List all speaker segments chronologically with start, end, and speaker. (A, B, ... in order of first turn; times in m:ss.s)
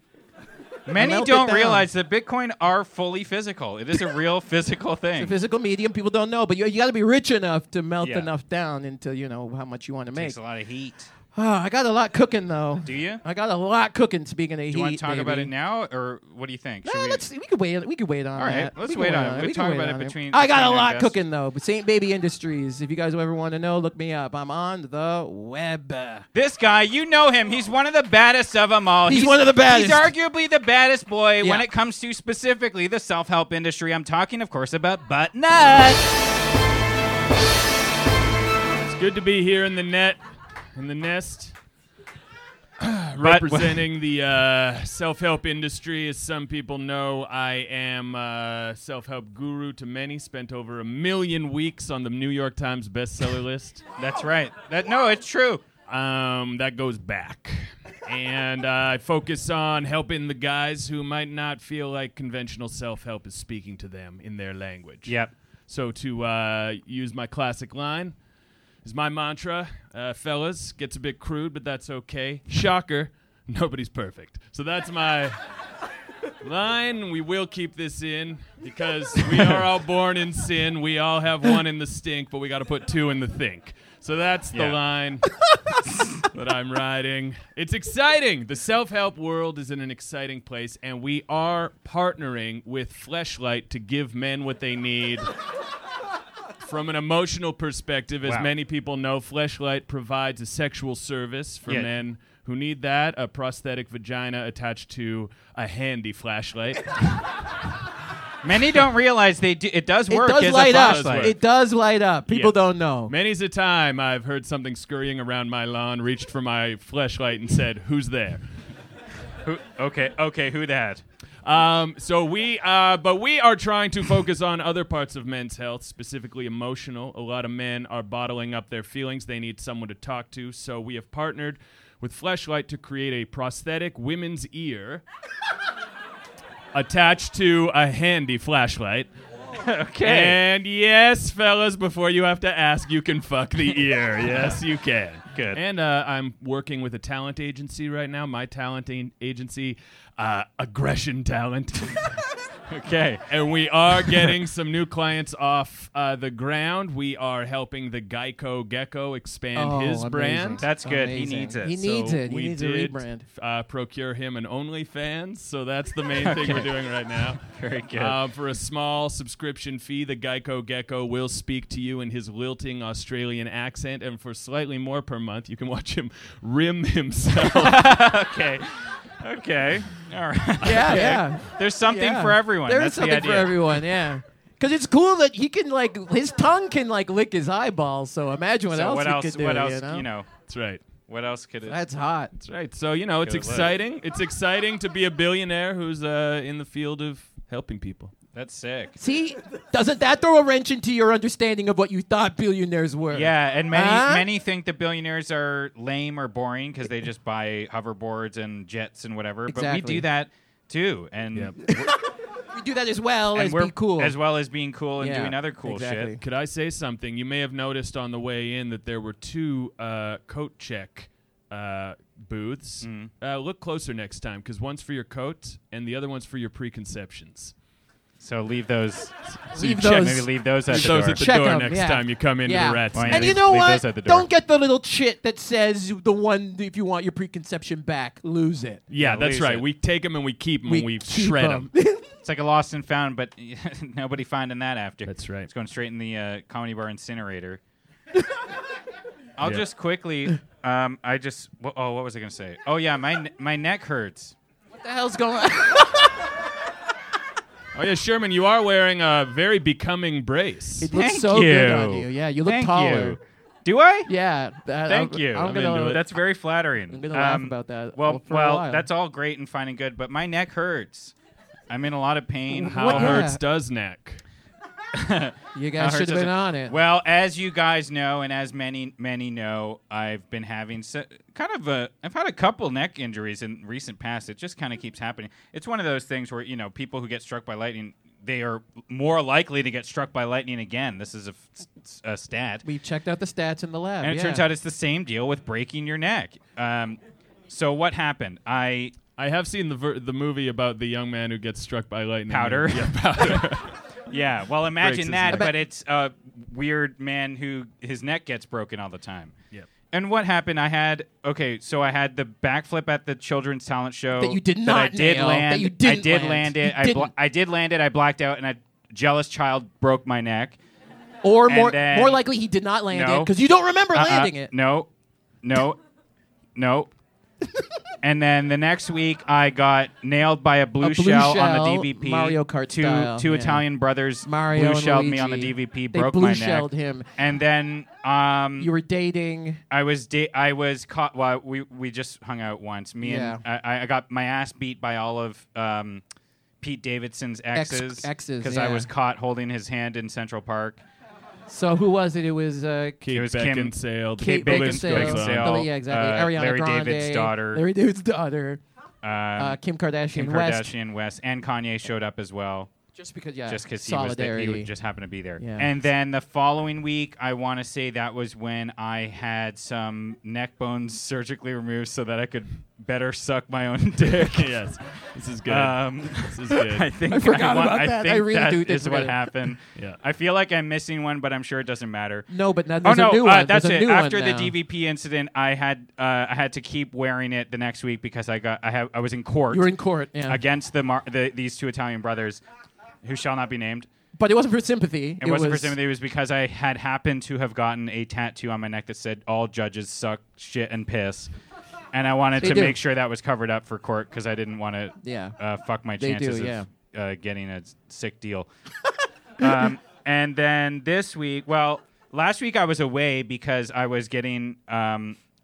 0:00.9-0:05.3 A
0:00.9-0:01.8 B
0:05.2-0:10.4 B
0:08.0-0:08.3 A
0:10.1-0:11.1 A
0:11.3-0:15.5 B
0:12.8-0:13.2 A
0:14.7-0:17.2 A
0:16.8-0:26.2 B
0:18.4-0:21.1 A
0:26.3-0:36.0 A
0:29.1-0:30.1 B
0:31.4-0:31.6 B
0:38.8-0:40.2 C
0:40.8-0:41.5 C
0:42.8-0:53.8 C
0:43.2-0:43.8 A
0:54.0-0:55.6 A
0:55.9-1:05.1 C
1:05.0-1:05.3 A
1:05.7-1:08.1 C
1:08.8-1:15.4 C
1:16.4-1:25.3 C
1:24.5-1:24.8 A
1:26.3-1:35.3 C
1:36.6-1:47.0 C
1:41.6-1:41.9 A
1:48.4-1:51.3 A
1:50.1-1:53.1 B
1:50.6-1:51.4 C
1:52.3-1:58.4 C
1:59.4-2:01.0 A
2:01.4-2:15.0 C
2:16.7-2:19.1 C
2:19.6-2:20.4 A
2:20.0-2:32.1 C
2:24.3-2:24.6 A
2:25.3-2:25.6 A
2:32.7-2:33.2 A
2:33.3-2:40.6 C
2:39.6-2:43.2 B
2:40.6-2:41.8 A
2:41.7-2:57.9 C
2:46.2-2:46.7 A
2:47.5-2:48.2 A
2:57.4-2:58.7 A
2:59.2-3:03.8 A
3:00.6-3:10.0 B
3:08.7-3:10.3 A
3:10.5-3:10.8 C
3:11.1-3:11.8 A
3:11.6-3:12.3 B
3:12.3-3:18.1 C
3:13.2-3:13.7 A
3:18.3-3:18.9 A
3:19.0-3:24.3 B
3:23.1-3:31.7 A
3:29.5-3:30.0 B
3:31.3-3:31.8 C
3:32.5-3:34.1 B
3:33.3-3:36.2 A
3:35.0-3:36.2 B
3:36.2-3:47.5 C
3:42.8-3:43.1 A
3:48.2-3:49.1 A
3:49.4-3:53.4 C
3:49.5-3:58.8 B
3:49.7-3:51.3 A
3:52.9-3:54.3 A
3:58.9-4:01.7 C
3:59.0-3:59.6 A
4:00.6-4:02.0 B
4:02.2-4:07.6 A
4:05.1-4:05.5 C
4:09.4-4:14.3 A
4:14.7-4:16.1 B
4:17.7-4:20.9 C
4:20.8-4:23.2 B
4:20.9-4:24.1 A
4:24.0-4:26.0 B
4:24.9-4:31.1 A
4:25.4-4:26.0 C
4:26.9-4:28.8 B
4:31.7-4:33.3 A
4:32.5-4:33.4 B
4:32.6-4:34.2 C
4:34.9-4:52.6 A
4:35.5-4:36.8 B
4:52.6-4:54.4 B
4:54.0-4:59.0 A
4:59.2-5:03.8 C
5:02.3-5:03.6 A
5:04.1-5:09.3 A
5:04.8-5:05.5 C
5:05.3-5:05.5 B
5:09.9-5:20.6 A
5:14.2-5:17.1 B
5:21.2-5:24.5 B
5:21.5-5:22.2 A
5:22.9-5:23.3 A
5:23.9-5:24.9 A
5:25.4-5:25.8 A
5:26.6-5:26.9 A
5:28.0-5:38.7 A
5:30.8-5:33.6 B
5:34.2-5:37.1 B
5:38.6-5:39.6 B
5:39.7-5:46.0 A
5:43.0-5:43.4 B
5:46.6-5:50.8 A
5:47.5-5:48.9 B
5:51.5-5:53.0 B
5:53.0-5:55.7 C
5:53.1-5:57.6 A
5:54.2-5:58.6 B
5:59.0-5:59.6 A
5:59.4-6:00.7 B
6:00.1-6:02.7 A
6:03.0-6:04.7 B
6:03.5-6:14.6 A
6:05.4-6:05.7 B
6:14.1-6:16.9 C
6:15.4-6:22.3 A
6:17.1-6:19.2 B
6:22.3-6:24.5 B
6:22.8-6:29.7 A
6:29.5-6:30.4 B
6:30.2-6:32.4 A
6:33.0-6:33.9 A
6:34.2-6:35.8 B
6:35.2-6:41.3 A
6:41.9-6:48.5 A
6:42.4-6:42.8 B
6:45.0-6:45.3 B
6:46.0-6:46.7 B
6:49.4-6:55.2 A